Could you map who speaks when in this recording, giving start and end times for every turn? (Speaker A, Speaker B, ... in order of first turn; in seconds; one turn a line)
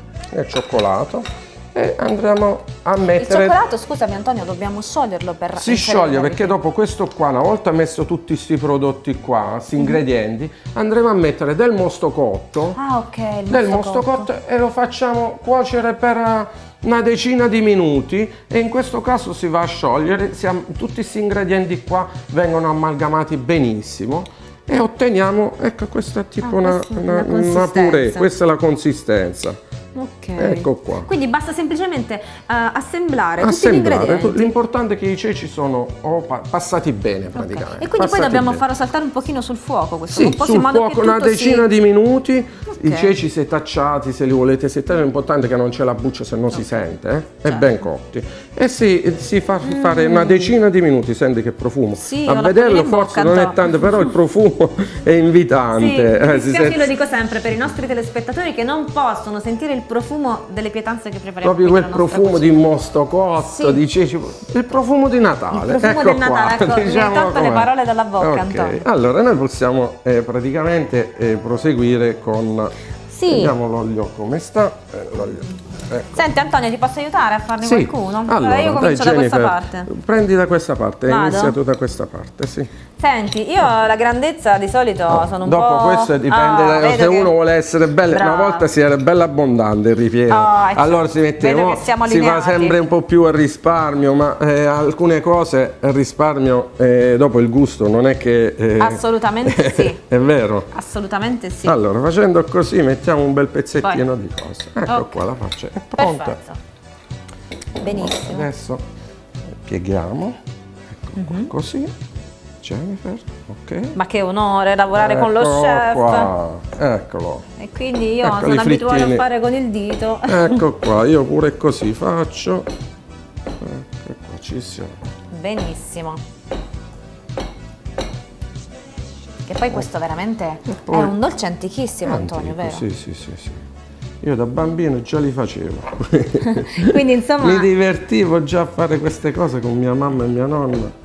Speaker A: 0.3-3.6
Speaker B: 3.1-6.5
Speaker A: 5.5-12.8
Speaker B: 12.7-14.3
Speaker A: 13.5-29.6
Speaker B: 26.4-28.3
Speaker B: 29.9-34.6
Speaker A: 30.4-31.1
Speaker A: 33.4-38.6
Speaker B: 37.4-41.7
Speaker A: 40.1-56.9
Speaker B: 42.7-43.1
Speaker B: 47.5-47.7
Speaker B: 49.6-50.5
Speaker B: 52.0-54.1
Speaker B: 55.7-62.6
Speaker A: 61.4-72.7
Speaker B: 63.4-63.8
Speaker B: 65.5-68.8
Speaker B: 73.1-73.5
Speaker A: 73.2-76.2
Speaker B: 76.1-79.9
Speaker A: 77.6-82.7
Speaker B: 81.1-81.6
Speaker B: 83.0-87.3
Speaker A: 85.1-100.7
Speaker B: 88.1-88.7
Speaker B: 90.3-92.8
Speaker B: 98.8-100.0
Speaker B: 100.7-101.8
Speaker A: 101.6-106.4
Speaker B: 104.9-105.2
Speaker B: 106.0-106.6
Speaker B: 107.8-108.5
Speaker A: 107.8-108.8
Speaker A: 109.6-110.4
Speaker A: 110.9-111.9
Speaker B: 111.2-111.5
Speaker A: 112.6-114.0
Speaker B: 113.9-116.3
Speaker A: 114.9-117.4
Speaker B: 117.6-120.6
Speaker A: 118.2-119.2
Speaker A: 120.3-122.7
Speaker A: 123.6-125.0
Speaker B: 125.3-126.2
Speaker B: 129.4-132.8
Speaker A: 130.7-131.2
Speaker A: 132.0-133.6
Speaker A: 134.2-140.9
Speaker B: 136.4-137.7